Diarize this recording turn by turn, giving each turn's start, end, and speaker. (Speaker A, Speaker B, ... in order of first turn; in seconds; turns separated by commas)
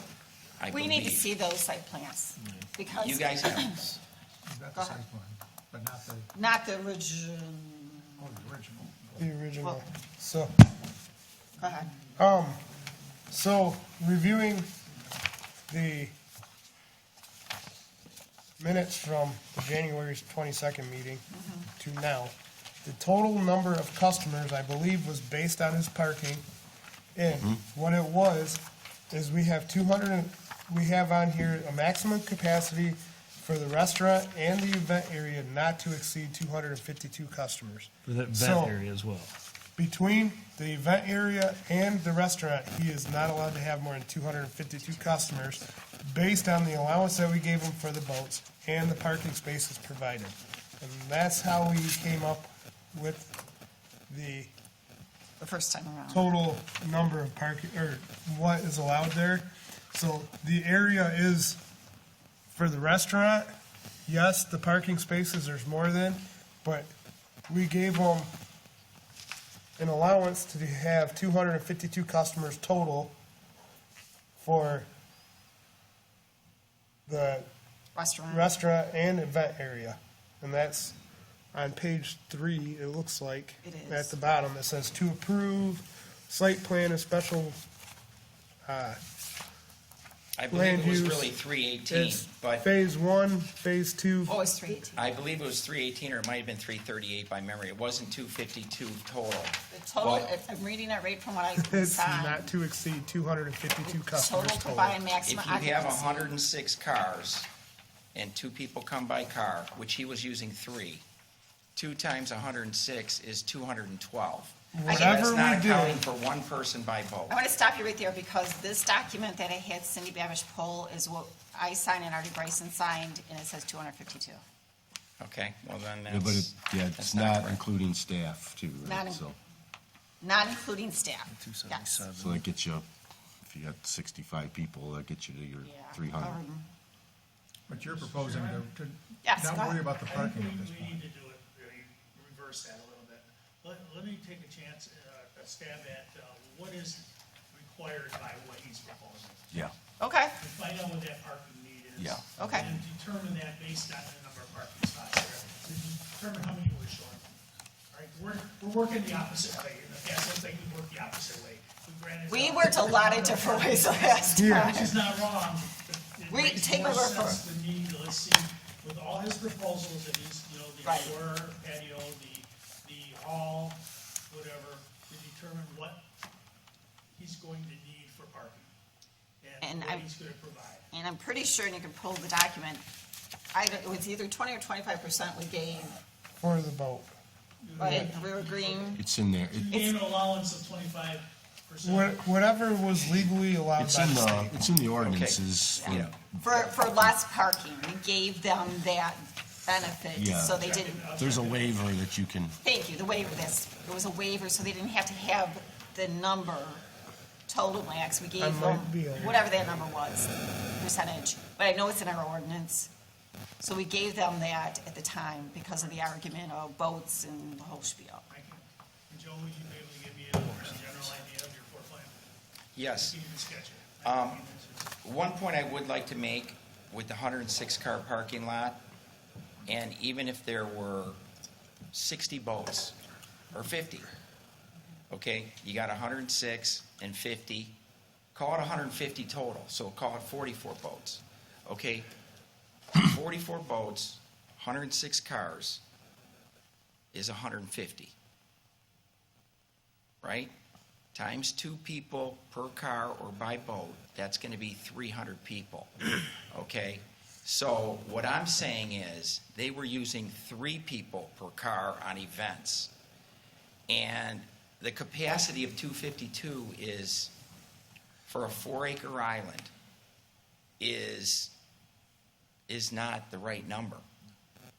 Speaker A: 0.6-1.3, Speaker B: 0.7-3.8, Speaker A: 2.9-4.0, Speaker C: 4.5-6.3, Speaker B: 4.7-5.0, Speaker B: 6.3-8.3, Speaker C: 8.2-9.2, Speaker D: 9.2-10.5, Speaker B: 11.6-11.9, Speaker D: 12.2-12.6, Speaker D: 13.3-14.7, Speaker D: 15.7-16.1, Speaker D: 18.6-26.4, Speaker B: 21.3-21.7, Speaker D: 27.1-38.9, Speaker E: 38.0-39.3, Speaker D: 39.8-53.4, Speaker D: 54.1-54.5, Speaker B: 55.4-56.2, Speaker D: 56.1-61.6, Speaker D: 62.5-63.5, Speaker D: 64.1-66.9, Speaker D: 67.5-68.3, Speaker D: 69.8-73.1, Speaker D: 74.4-74.9, Speaker D: 77.0-77.5, Speaker B: 77.9-78.5, Speaker D: 78.3-81.0, Speaker D: 81.5-87.6, Speaker B: 83.6-84.1, Speaker D: 88.6-89.0, Speaker A: 90.4-92.7, Speaker D: 90.5-91.3, Speaker D: 91.9-94.4, Speaker B: 94.3-95.0, Speaker A: 94.9-100.3, Speaker B: 99.7-102.5, Speaker D: 101.6-105.0, Speaker B: 103.8-106.3, Speaker A: 105.2-107.5, Speaker A: 108.1-111.0, Speaker A: 111.8-117.4, Speaker D: 114.7-116.0, Speaker B: 114.9-115.3, Speaker B: 117.3-124.4, Speaker A: 125.2-127.6, Speaker F: 126.1-129.4, Speaker B: 128.8-129.2, Speaker B: 130.2-132.0, Speaker E: 131.3-132.4, Speaker F: 132.1-132.9, Speaker F: 133.4-136.4, Speaker B: 135.6-136.7, Speaker G: 137.7-138.7, Speaker C: 137.7-141.0, Speaker B: 139.2-139.8, Speaker G: 139.9-149.6, Speaker B: 150.0-150.4, Speaker G: 150.4-157.3, Speaker F: 152.0-152.3, Speaker B: 152.4-152.7, Speaker G: 157.9-176.0, Speaker B: 162.3-164.9, Speaker D: 164.4-164.9, Speaker B: 166.3-167.4, Speaker B: 170.8-171.1, Speaker G: 177.2-178.7, Speaker G: 179.4-180.9, Speaker B: 179.6-180.1, Speaker B: 180.9-182.8, Speaker B: 183.5-186.0, Speaker D: 186.4-187.2, Speaker G: 187.6-192.2, Speaker B: 187.8-189.0, Speaker D: 187.8-188.1, Speaker F: 189.0-189.8, Speaker D: 191.8-194.6, Speaker F: 193.8-197.2, Speaker A: 195.0-196.1, Speaker B: 195.8-201.1, Speaker F: 200.1-202.6, Speaker G: 200.6-201.8, Speaker B: 202.6-206.8, Speaker B: 207.5-212.9, Speaker D: 208.4-209.3, Speaker G: 209.1-209.7, Speaker B: 213.6-218.2, Speaker G: 218.3-222.2, Speaker A: 222.8-223.2, Speaker G: 222.9-224.9, Speaker A: 224.0-224.4, Speaker A: 225.0-228.8, Speaker A: 229.7-231.2, Speaker A: 231.9-233.0, Speaker A: 233.5-234.1, Speaker A: 235.1-237.8, Speaker A: 238.3-242.1, Speaker A: 243.0-245.8, Speaker A: 247.1-248.2, Speaker A: 250.2-250.5, Speaker A: 251.1-255.9, Speaker A: 256.5-262.9, Speaker A: 263.9-267.3, Speaker A: 268.2-269.7, Speaker A: 270.8-271.5, Speaker A: 272.7-274.0